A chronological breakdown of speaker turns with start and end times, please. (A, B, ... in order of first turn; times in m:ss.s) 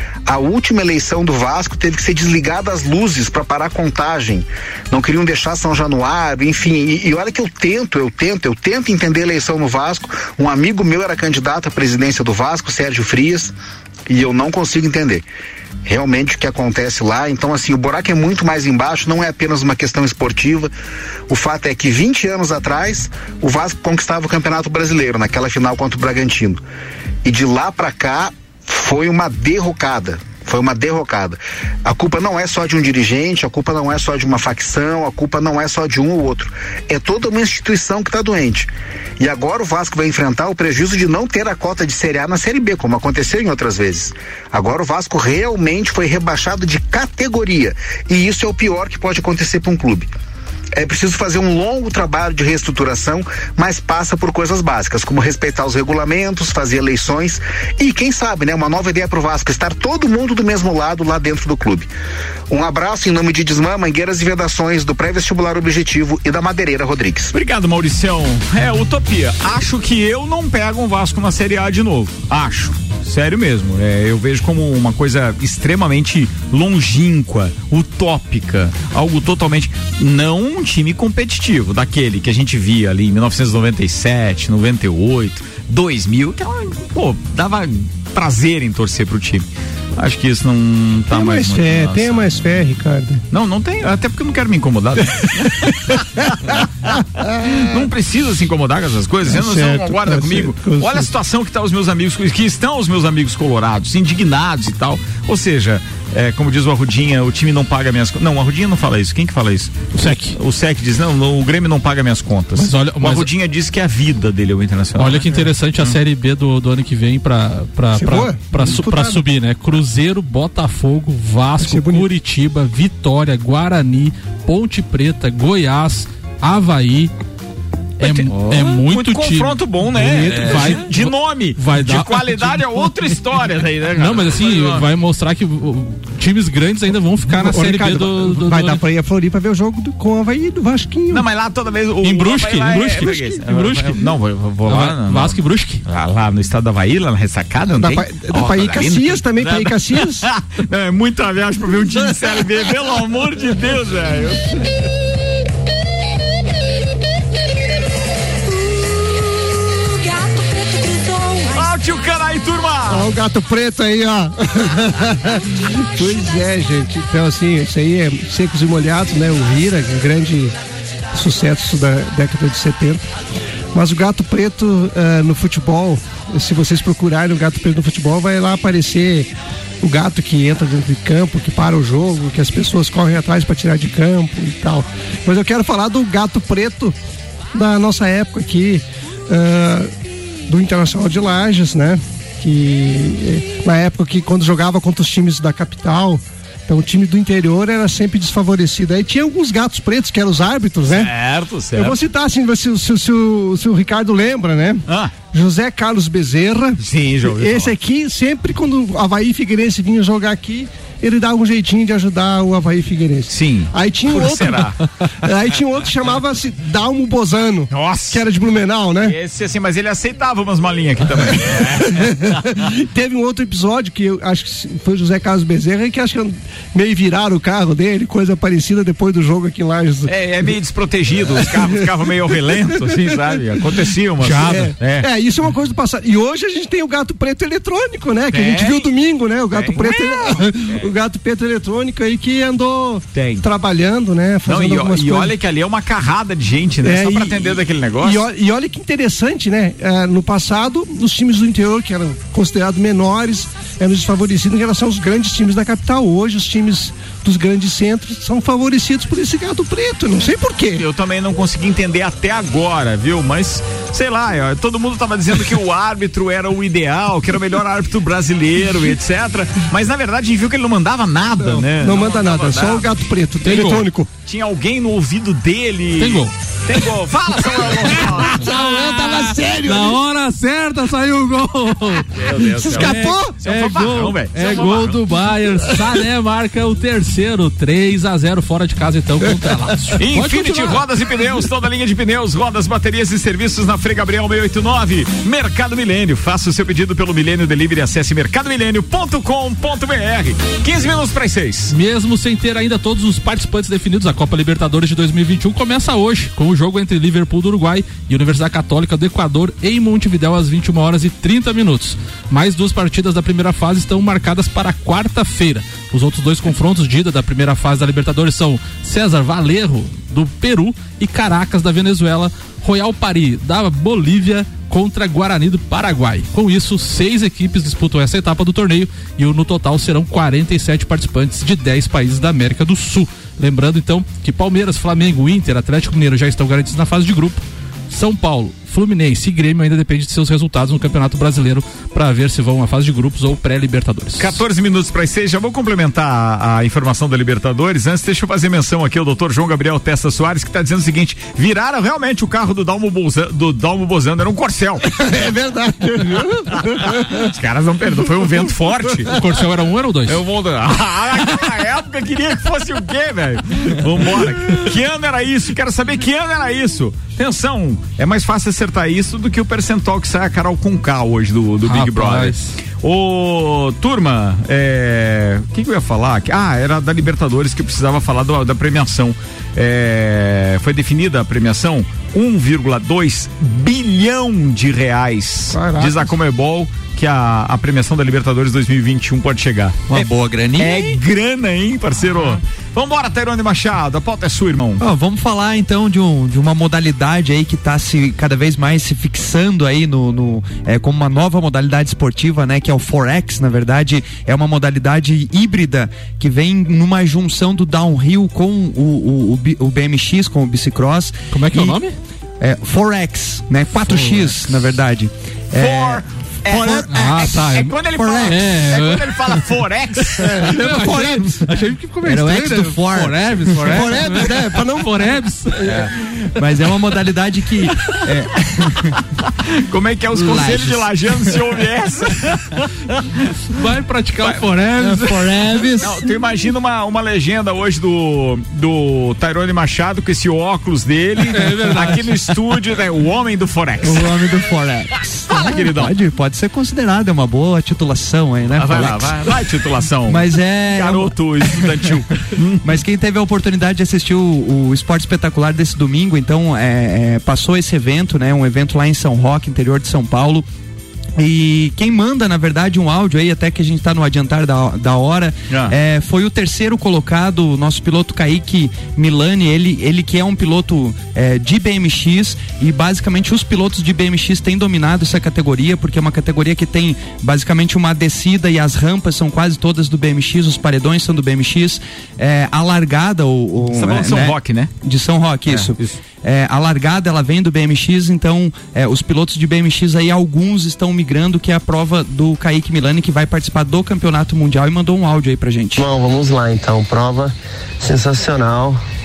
0:00.2-0:13.5 A
0:14.1-0:15.2 A
0:15.8-0:20.7 A
0:21.3-0:26.6 A
0:27.2-0:50.1 A
0:50.8-1:01.9 A
1:02.5-1:07.3 A
1:07.3-1:32.3 B
1:31.1-1:33.2 C
1:33.3-1:55.3 B
1:36.4-1:37.4 C
1:39.2-1:41.1 C
1:49.9-1:50.4 D
1:52.6-1:53.3 D
1:55.0-2:07.1 D
1:58.0-1:59.2 C
2:01.6-2:02.0 C
2:08.0-2:12.9 D
2:08.0-2:14.9 B
2:10.2-2:10.8 C
2:14.0-2:18.8 D
2:17.3-2:21.2 C
2:21.1-2:34.4 B
2:22.0-2:24.0 D
2:24.7-2:25.8 D
2:27.8-2:30.2 C
2:41.4-2:43.1 B
2:42.9-2:50.5 C
2:51.1-2:53.0 C
2:53.7-2:59.3 C
2:59.8-3:06.9 C
3:07.5-3:09.9 C
3:10.5-3:21.1 C
3:20.9-3:22.0 B
3:21.7-3:39.2 C
3:24.9-3:25.1 B
3:26.8-3:27.7 B
3:33.3-3:34.8 B
3:37.7-3:38.2 B
3:39.0-3:42.6 B
3:41.7-3:50.1 C
3:50.1-3:55.1 B
3:54.2-3:54.7 D
3:54.2-4:05.3 C
3:58.3-3:58.9 B
3:59.5-4:00.9 B
4:03.1-4:03.4 B
4:04.4-4:08.2 B
4:06.8-4:20.8 C
4:20.8-4:33.7 B
4:31.4-4:34.1 C
4:33.4-4:33.9 D
4:34.2-4:38.4 B
4:36.0-4:36.3 D
4:37.9-4:40.0 C
4:38.4-4:50.8 D
4:42.1-4:45.1 B
4:42.4-4:43.3 C
4:50.0-5:01.7 B
5:01.7-5:44.4 D
5:44.2-5:55.2 B
5:54.9-5:57.2 C
5:56.8-5:59.1 B
5:59.1-6:00.2 D
6:00.1-6:34.8 B
6:11.6-6:12.6 D
6:25.5-6:26.0 C
6:29.9-6:31.0 E
6:34.8-6:51.8 E
6:51.3-6:51.9 D
6:52.4-6:58.5 E
6:55.6-7:00.5 B
6:56.9-6:59.4 D
7:00.2-7:05.7 D
7:00.2-7:01.3 C
7:02.0-7:04.0 E
7:03.7-7:04.9 C
7:06.4-7:09.0 E
7:09.7-7:12.6 B
7:10.1-7:10.9 E
7:13.5-7:15.8 D
7:14.8-7:15.9 E
7:15.8-7:24.4 B
7:21.3-7:22.2 D
7:23.8-7:29.2 E
7:25.3-7:25.9 B
7:28.6-7:32.6 B
7:30.1-7:31.7 E
7:32.6-7:40.4 E
7:41.2-8:15.9 E
8:03.7-8:04.7 B
8:05.5-8:06.0 B
8:15.8-8:18.8 F